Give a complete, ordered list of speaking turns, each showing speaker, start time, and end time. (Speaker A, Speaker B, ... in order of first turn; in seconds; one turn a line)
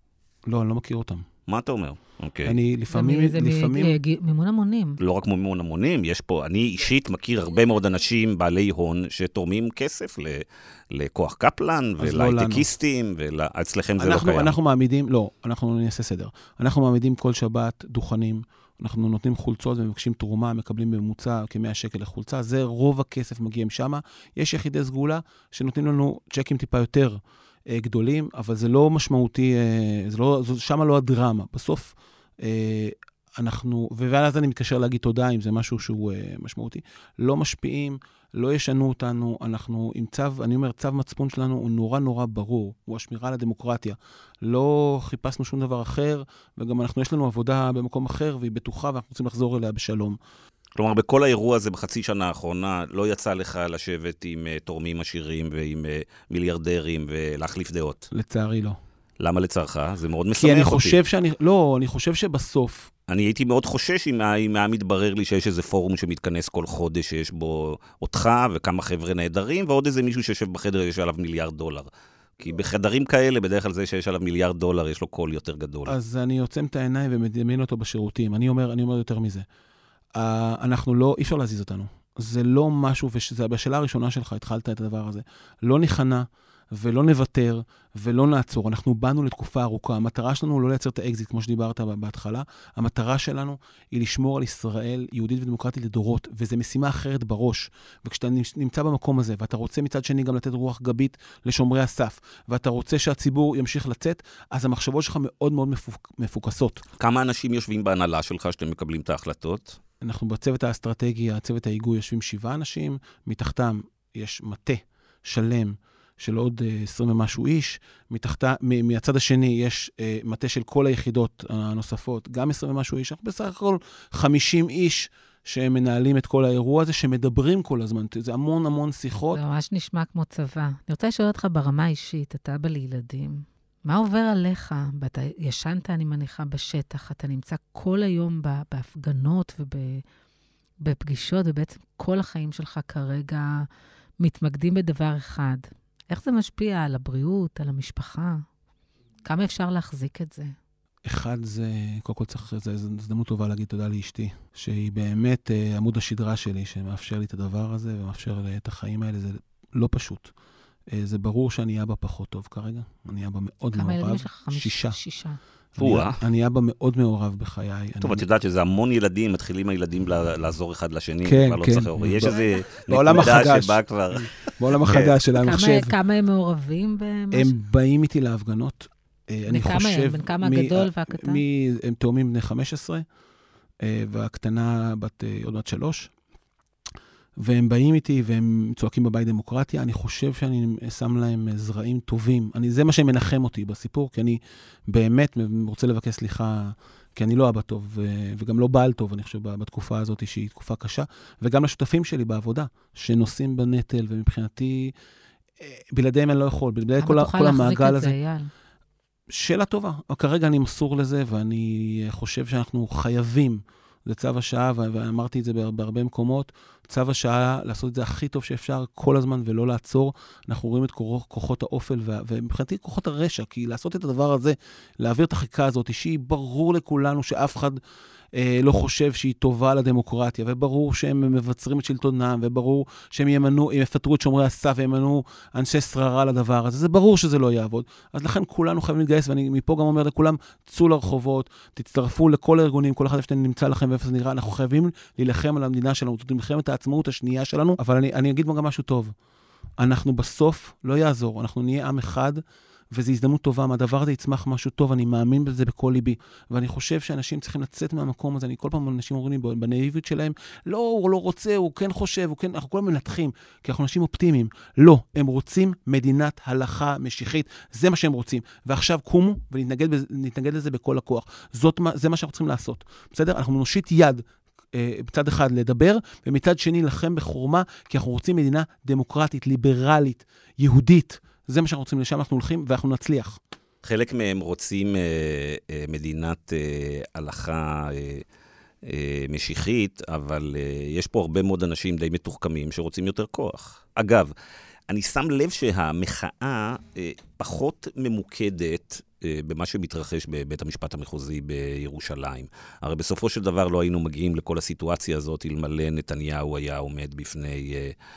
Speaker A: 0.5-1.2
Speaker B: 1.5-2.6
Speaker A: 2.4-4.0
Speaker C: 2.9-5.0
Speaker B: 5.0-14.5
Speaker A: 12.0-12.7
Speaker A: 14.0-50.2
Speaker B: 50.8-58.1
Speaker A: 58.1-58.8
Speaker B: 59.2-61.0
Speaker A: 60.3-62.9
Speaker B: 63.1-71.9
Speaker B: 72.4-75.9
Speaker A: 75.8-79.4
Speaker A: 80.1-106.8
Speaker B: 107.0-109.8
Speaker A: 110.0-129.4
Speaker C: 129.3-140.0
Speaker C: 140.8-143.7
Speaker C: 144.2-148.4
Speaker C: 149.2-150.5
Speaker A: 151.0-160.3
Speaker A: 160.9-165.0
Speaker C: 163.7-165.4
Speaker A: 165.7-168.2
Speaker B: 165.8-166.2
Speaker B: 168.0-175.2
Speaker A: 171.2-175.9
Speaker C: 175.3-177.6
Speaker A: 177.3-183.0
Speaker C: 179.5-181.4
Speaker A: 183.8-186.1
Speaker A: 187.4-204.9
Speaker A: 205.6-208.2
Speaker C: 207.0-208.5
Speaker A: 209.3-227.8
Speaker A: 228.3-249.1
Speaker A: 249.8-283.4
Speaker B: 283.8-288.2
Speaker B: 288.8-294.3
Speaker B: 294.9-307.9